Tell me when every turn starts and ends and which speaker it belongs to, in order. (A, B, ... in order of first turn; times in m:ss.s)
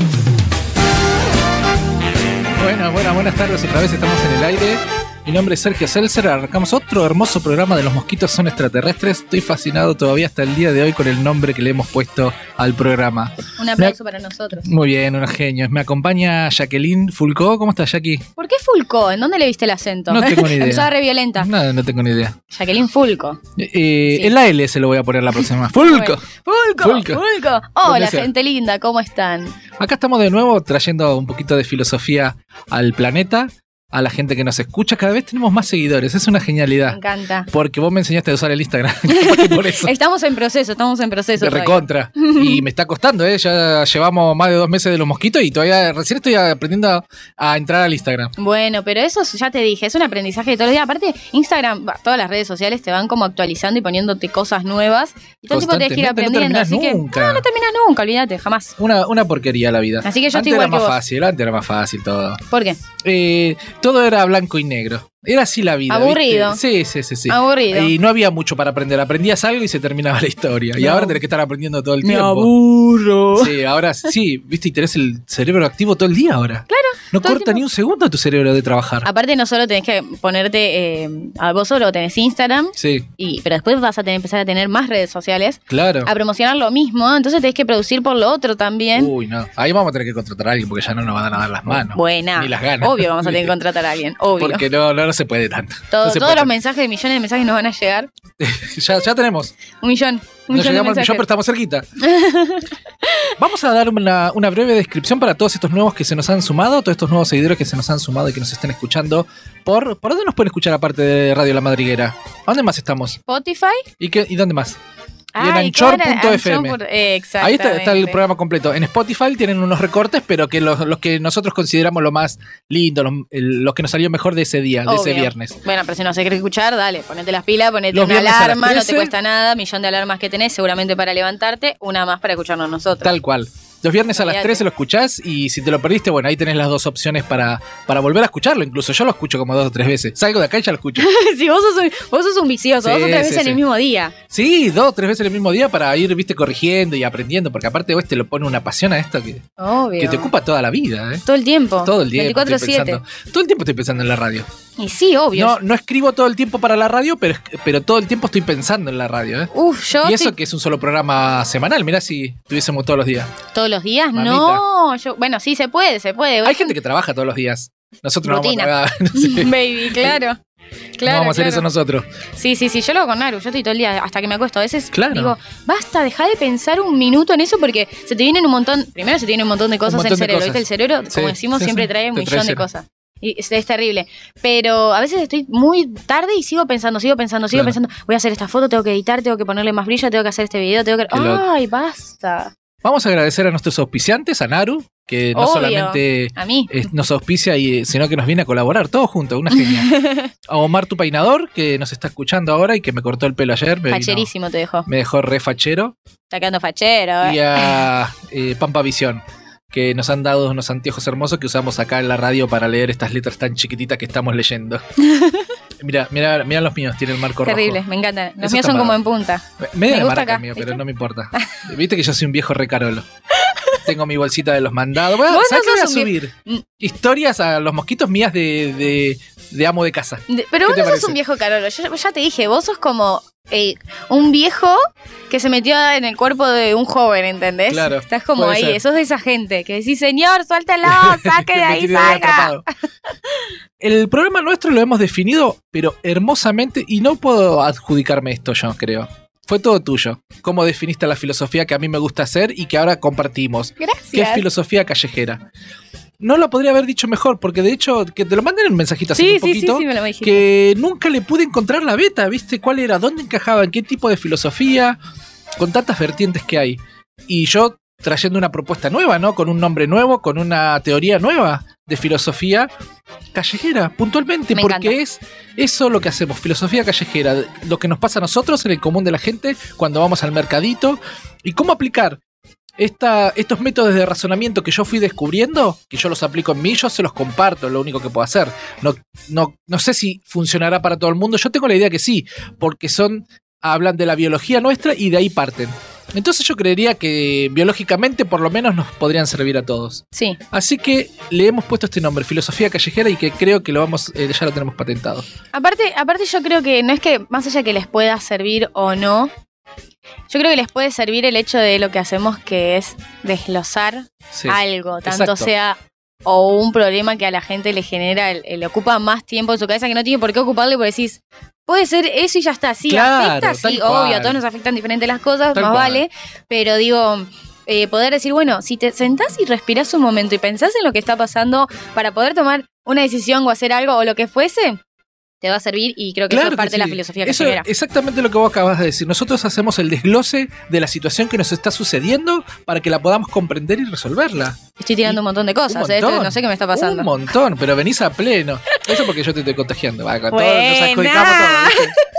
0:02.6-0:14.0 A
0:13.6-0:14.7 B
0:14.6-0:18.3 A
0:18.4-0:21.5 B
0:20.1-0:22.4 A
0:22.5-0:23.4 B
0:23.6-0:26.2 A
0:25.8-0:29.6 B
0:26.8-0:27.2 A
0:27.8-0:28.3 A
0:29.8-0:39.9 A
0:36.9-0:37.5 B
0:39.1-0:42.6 B
0:41.4-0:48.3 A
0:48.4-0:58.8 B
0:55.5-0:57.4 A
0:58.8-1:02.4 A
1:00.0-1:01.0 B
1:02.5-1:02.8 B
1:03.0-1:12.5 A
1:05.9-1:06.6 B
1:07.3-1:07.9 B
1:10.8-1:11.2 B
1:12.0-1:13.6 B
1:13.4-1:19.1 A
1:16.7-1:17.6 B
1:19.0-1:29.1 B
1:22.8-1:23.1 A
1:25.7-1:26.1 A
1:29.0-1:33.5 A
1:31.9-1:34.6 B
1:34.4-1:36.5 A
1:35.9-1:38.1 B
1:38.4-1:39.5 A
1:39.8-1:41.2 B
1:40.5-1:41.9 A
1:42.0-1:43.3 B
1:43.4-1:53.2 A
1:53.2-1:53.9 B
1:54.0-1:54.8 A
1:55.4-1:58.2 B
1:55.4-1:56.8 A
1:57.4-2:05.6 A
2:04.9-2:13.1 B
2:07.9-2:09.1 A
2:13.0-2:21.1 A
2:14.2-2:14.6 B
2:21.0-2:24.1 B
2:22.8-2:23.6 A
2:24.3-2:29.5 A
2:29.6-2:30.3 B
2:30.0-2:31.2 A
2:31.2-2:33.0 B
2:31.8-2:34.5 A
2:34.8-2:35.6 B
2:35.4-2:39.5 A
2:39.5-2:40.3 B
2:40.0-2:43.3 A
2:43.5-2:46.7 B
2:44.2-2:44.6 A
2:46.4-2:50.2 A
2:48.2-2:50.4 B
2:51.0-2:51.7 B
2:51.0-2:52.1 A
2:52.4-3:12.5 B
2:54.9-2:55.4 A
2:59.9-3:02.6 A
3:11.1-3:11.4 A
3:12.8-3:19.9 A
3:15.4-3:16.7 B
3:19.5-3:20.3 B
3:20.5-3:24.3 A
3:23.9-3:24.9 B
3:24.9-3:26.0 A
3:26.3-3:27.8 B
3:27.2-3:34.8 A
3:35.0-3:35.5 B
3:35.8-3:37.8 A
3:37.4-3:40.8 B
3:38.4-3:39.0 A
3:39.6-3:43.0 A
3:43.4-3:43.8 B
3:43.8-3:51.2 A
3:45.2-3:46.6 B
3:50.3-4:02.6 B
3:57.7-3:58.8 A
4:00.9-4:02.6 A
4:03.8-4:15.4 A
4:13.8-4:14.4 B
4:16.2-4:25.0 A
4:19.2-4:20.4 B
4:25.6-4:32.7 A
4:33.3-4:42.2 A
4:34.5-4:35.0 B
4:42.8-5:05.3 A
5:00.1-5:00.4 B
5:05.5-5:09.3 B
5:10.3-5:34.8 B
5:14.3-5:15.5 A
5:22.9-5:24.4 A
5:25.5-5:26.0 A
5:35.4-5:37.7 B
5:36.3-5:51.9 A
5:44.8-5:47.1 B
5:50.3-5:51.9 B